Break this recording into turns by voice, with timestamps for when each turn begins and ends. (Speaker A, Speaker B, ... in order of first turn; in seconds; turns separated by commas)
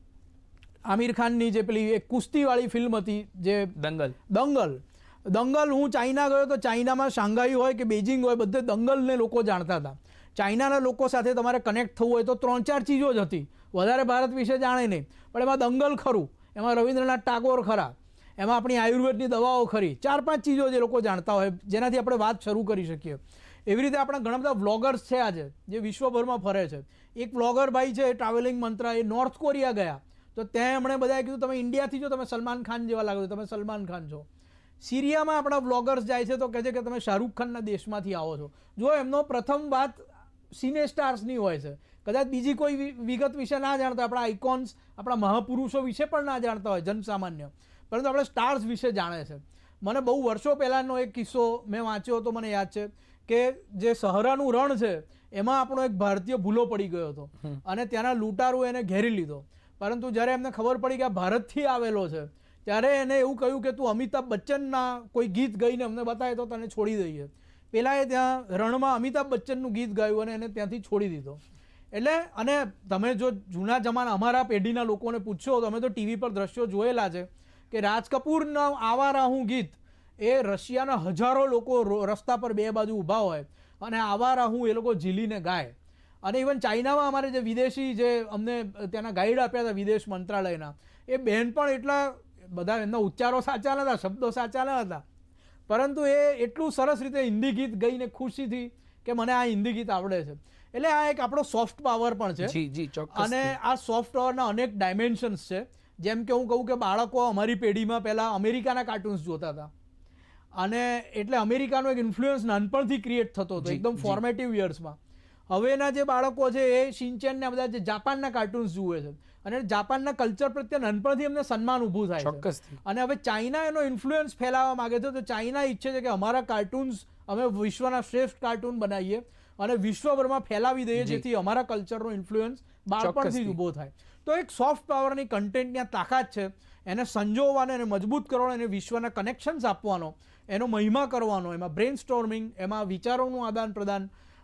Speaker A: 0.8-3.7, Speaker B: 3.8-4.2, Speaker A: 4.3-34.3, Speaker A: 34.8-71.4, Speaker A: 71.9-95.0, Speaker A: 95.7-102.6, Speaker B: 102.4-103.6, Speaker A: 103.1-109.7, Speaker A: 110.5-115.0, Speaker B: 113.6-114.2, Speaker A: 115.5-144.1, Speaker B: 122.2-122.8, Speaker B: 131.0-131.2, Speaker B: 133.0-133.6